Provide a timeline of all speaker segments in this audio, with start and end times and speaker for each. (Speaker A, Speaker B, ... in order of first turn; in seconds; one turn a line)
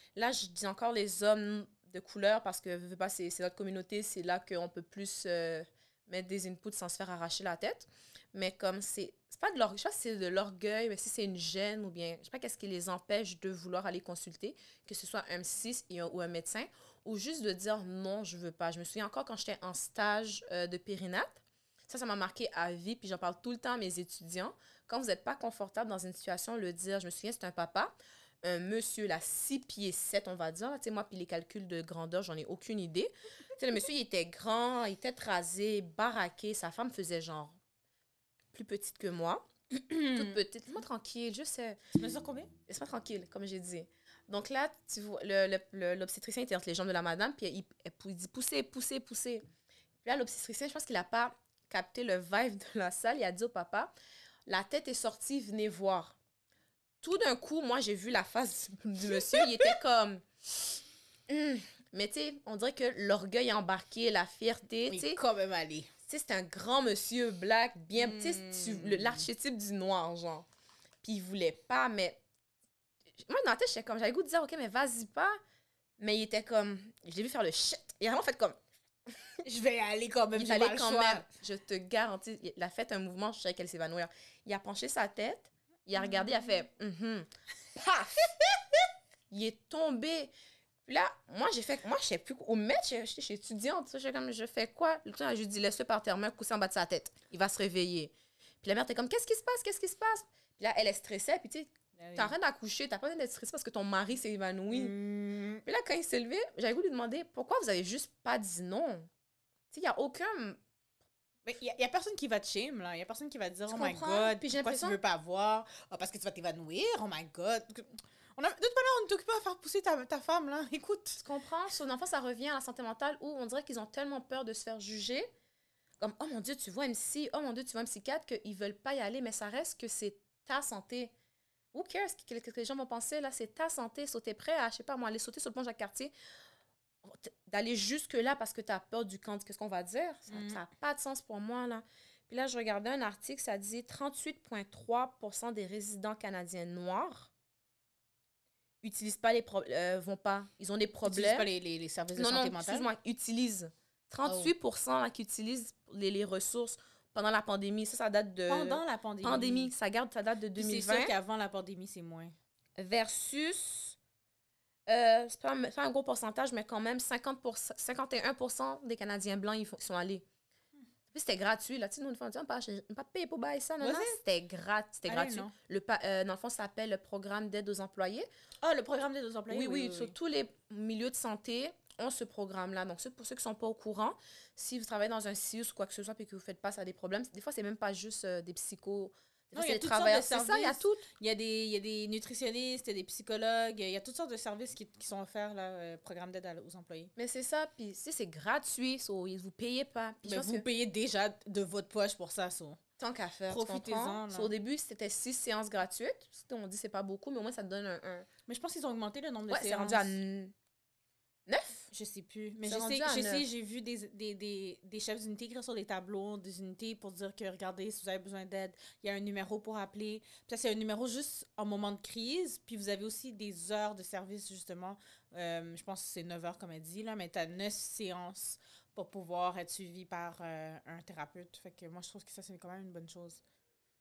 Speaker A: 0.1-37.6
Speaker A: 38.5-41.8
Speaker B: 40.0-40.4
Speaker B: 41.9-42.5
Speaker A: 42.7-49.4
Speaker A: 50.0-53.9
Speaker A: 54.5-56.2
Speaker A: 57.0-60.7
Speaker B: 59.1-59.7
Speaker A: 61.3-65.2
Speaker B: 64.9-65.9
Speaker A: 66.0-70.5
Speaker B: 67.9-69.3
Speaker A: 71.0-72.2
Speaker A: 73.2-75.4
Speaker A: 76.0-78.6
Speaker B: 79.4-81.3
Speaker A: 80.3-88.3
Speaker A: 89.3-90.3
Speaker A: 90.8-104.9
Speaker B: 102.0-102.3
Speaker B: 104.7-105.6
Speaker A: 105.6-109.1
Speaker A: 109.7-110.6
Speaker B: 111.5-121.2
Speaker A: 113.7-115.0
Speaker A: 121.2-125.3
Speaker A: 126.0-131.1
Speaker A: 131.7-136.1
Speaker A: 137.0-147.3
Speaker B: 140.3-140.6
Speaker A: 148.8-151.5
Speaker B: 151.0-152.9
Speaker A: 152.1-161.1
Speaker B: 154.2-154.5
Speaker B: 158.5-159.7
Speaker B: 160.6-162.3
Speaker A: 162.8-164.0
Speaker A: 164.9-170.2
Speaker A: 171.1-178.3
Speaker B: 173.8-174.2
Speaker B: 175.1-175.5
Speaker B: 178.6-180.1
Speaker A: 179.5-191.1
Speaker B: 189.5-197.1
Speaker A: 197.2-200.6
Speaker B: 200.2-202.8
Speaker A: 203.0-208.3
Speaker B: 203.5-204.5
Speaker B: 208.5-210.2
Speaker A: 209.5-210.5
Speaker A: 211.5-211.9
Speaker B: 211.9-233.4
Speaker A: 212.6-213.4